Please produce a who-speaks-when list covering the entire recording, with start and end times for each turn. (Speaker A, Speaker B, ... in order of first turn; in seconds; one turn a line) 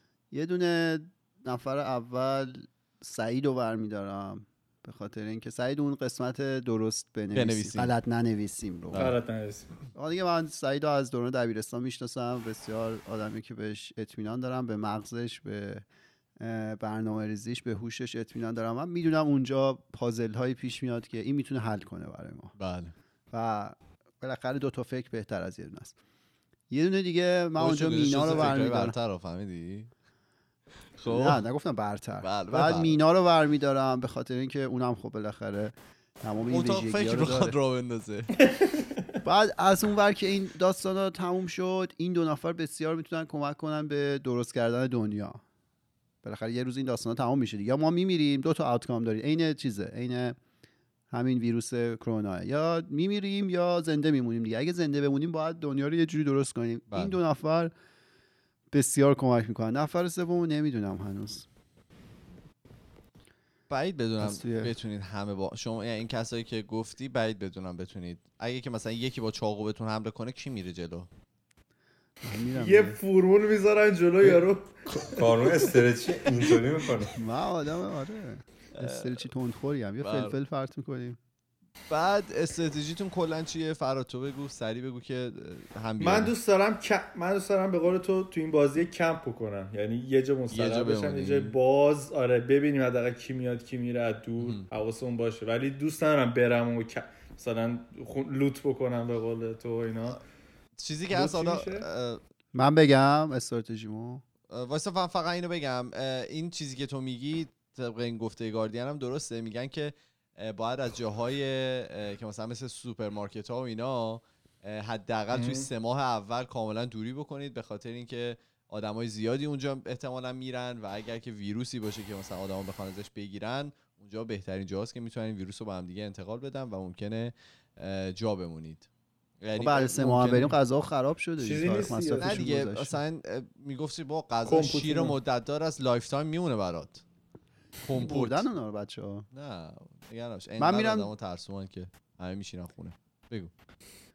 Speaker A: 0.3-9.1
Speaker B: 7.3-7.9
Speaker C: 8.9-9.7
Speaker A: 9.9-15.8
Speaker A: 16.4-22.5
Speaker B: 22.6-22.9
Speaker A: 23.3-25.9
Speaker A: 26.7-28.9
Speaker B: 27.6-29.9
Speaker B: 31.0-31.4
Speaker A: 31.1-37.5
Speaker B: 32.2-32.9
Speaker B: 36.5-38.3
Speaker A: 39.2-45.4
Speaker A: 46.2-50.4
Speaker A: 51.1-57.7
Speaker B: 56.9-57.2
Speaker A: 58.7-61.5
Speaker B: 63.7-71.1
Speaker A: 64.2-64.7
Speaker A: 72.2-73.0
Speaker C: 72.5-75.2
Speaker D: 74.9-77.1
Speaker A: 77.2-81.2
Speaker B: 78.7-79.2
Speaker B: 80.0-80.3
Speaker B: 81.9-86.3
Speaker C: 86.0-100.2
Speaker B: 90.5-91.5
Speaker B: 94.4-94.7
Speaker B: 100.8-102.2
Speaker C: 101.1-101.8
Speaker A: 102.5-104.2
Speaker B: 104.5-128.9
Speaker C: 115.3-115.7
Speaker B: 129.4-130.5
Speaker A: 129.6-133.0
Speaker C: 131.4-132.4
Speaker B: 132.2-137.0
Speaker C: 134.4-135.2
Speaker B: 137.8-138.5
Speaker A: 137.9-139.2
Speaker B: 139.3-143.5
Speaker A: 140.6-141.1